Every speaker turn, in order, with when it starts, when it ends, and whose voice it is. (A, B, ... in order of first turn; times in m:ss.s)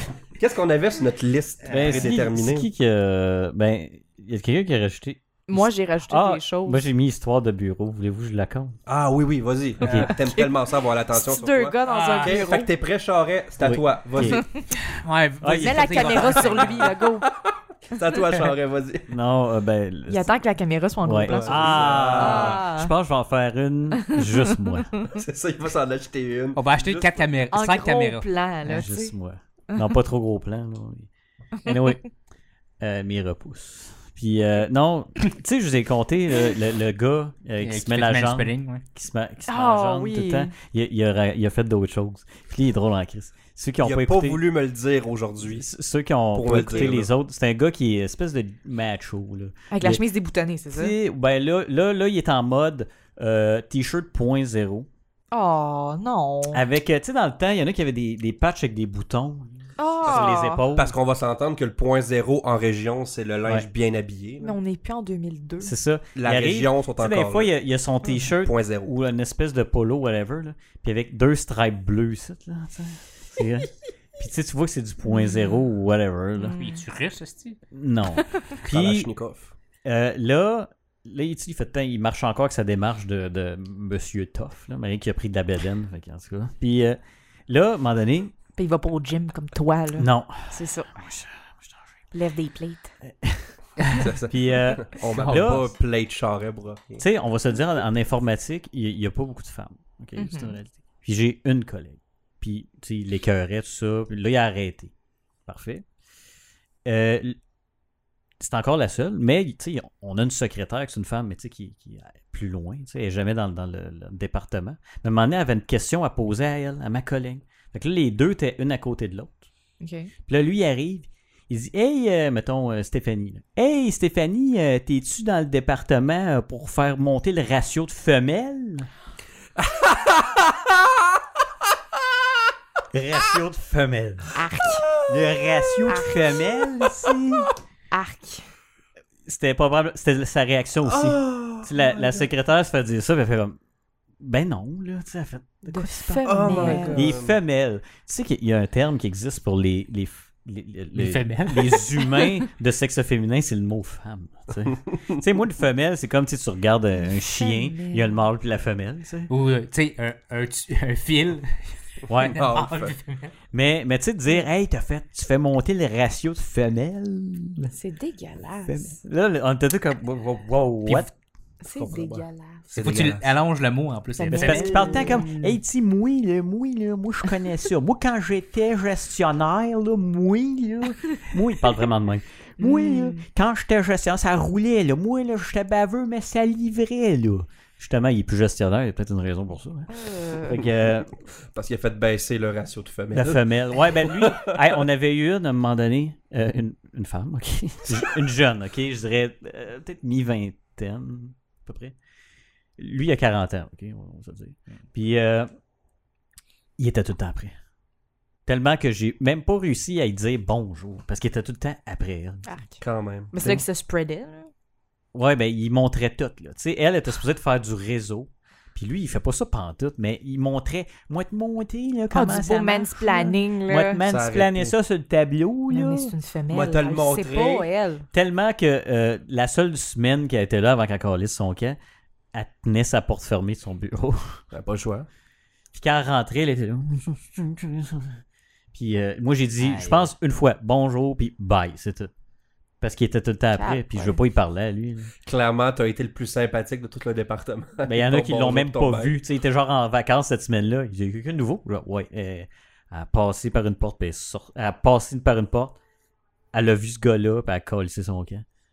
0:00.4-0:02.7 A
0:01.7-0:02.1 B
0:01.7-0:08.8 C
0:05.5-0:06.8 D
0:08.9-0:14.5 A
0:09.8-0:10.1 C
0:09.8-0:10.1 B
0:10.1-0:10.6 D
0:11.1-0:12.7 D
0:11.8-0:12.4 B
0:13.6-0:14.4 C
0:14.9-0:16.8 B
0:15.4-0:16.5 C
0:15.6-0:17.3 D
0:16.5-0:16.8 A
0:17.9-0:19.1 A
0:19.1-0:20.3 C
0:20.1-0:22.9 D
0:21.0-0:24.9 C
0:21.2-0:22.6 A
0:24.0-0:24.5 D
0:25.1-0:27.3 A
0:26.6-0:28.3 B
0:27.5-0:29.1 D
0:28.6-0:31.1 C
0:31.6-0:31.9 D
0:31.6-0:32.0 C
0:32.8-0:44.4 C
0:37.6-0:38.8 B
0:39.5-0:40.5 D
0:43.8-0:45.7 A
0:45.5-0:50.0 C
0:46.3-0:47.1 A
0:49.7-0:50.9 D
0:50.7-0:54.9 C
0:55.3-0:56.6 D
0:56.5-1:00.9 C
0:59.8-1:00.6 D
1:00.1-1:04.6 A
1:04.4-1:05.7 D
1:05.6-1:16.6 C
1:06.2-1:07.5 A
1:08.3-1:08.9 A
1:15.1-1:15.6 D
1:16.4-1:16.8 D
1:16.5-1:17.6 B
1:17.7-1:19.1 C
1:18.6-1:19.5 A
1:19.8-1:28.3 C
1:28.6-1:30.9 D
1:30.0-1:31.7 C
1:32.1-1:32.9 D
1:33.0-1:33.6 C
1:33.9-1:37.0 A
1:34.3-1:35.7 C
1:35.1-1:35.7 B
1:37.0-1:44.9 C
1:40.2-1:40.6 D
1:45.5-1:45.9 C
1:46.8-1:47.4 C
1:48.4-1:59.4 C
1:59.8-2:00.1 D
2:00.3-2:08.9 C
2:09.6-2:10.8 A
2:12.9-2:14.3 C
2:14.4-2:14.9 D
2:15.1-2:17.5 C
2:15.9-2:16.4 D
2:17.9-2:18.5 D
2:19.2-2:23.6 C
2:20.9-2:21.7 A
2:24.2-2:39.3 C
2:25.7-2:27.1 D
2:26.2-2:27.4 A
2:30.9-2:32.0 B
2:37.1-2:38.1 D
2:39.3-2:43.3 B
2:42.1-2:42.4 C
2:42.2-2:43.0 A
2:43.5-2:47.8 C
2:47.7-2:49.0 D
2:48.7-2:51.1 C
2:51.6-2:52.6 D
2:51.8-2:53.3 A
2:52.8-2:55.3 B
2:54.2-2:55.3 D
2:54.3-3:11.1 C
3:02.6-3:03.3 D
3:09.9-3:10.6 D
3:10.6-3:10.9 A
3:11.5-3:14.7 A
3:13.1-3:22.0 C
3:22.8-3:25.5 C
3:26.8-3:27.6 C
3:28.5-3:32.5 C
3:32.4-3:32.8 D
3:32.8-3:33.3 A
3:33.3-3:34.5 D
3:35.1-3:46.1 C
3:42.1-3:44.0 D
3:44.0-3:44.8 A
3:45.7-3:48.1 D
3:46.5-3:47.7 A
3:48.1-3:51.8 C
3:52.3-3:54.4 C
3:54.5-3:55.1 A
3:55.7-3:58.2 C
3:58.7-4:02.1 C
3:59.6-4:00.1 B
4:02.8-4:05.1 C
4:03.5-4:04.2 D
4:05.2-4:09.2 A
4:07.8-4:15.8 C
4:16.5-4:18.4 C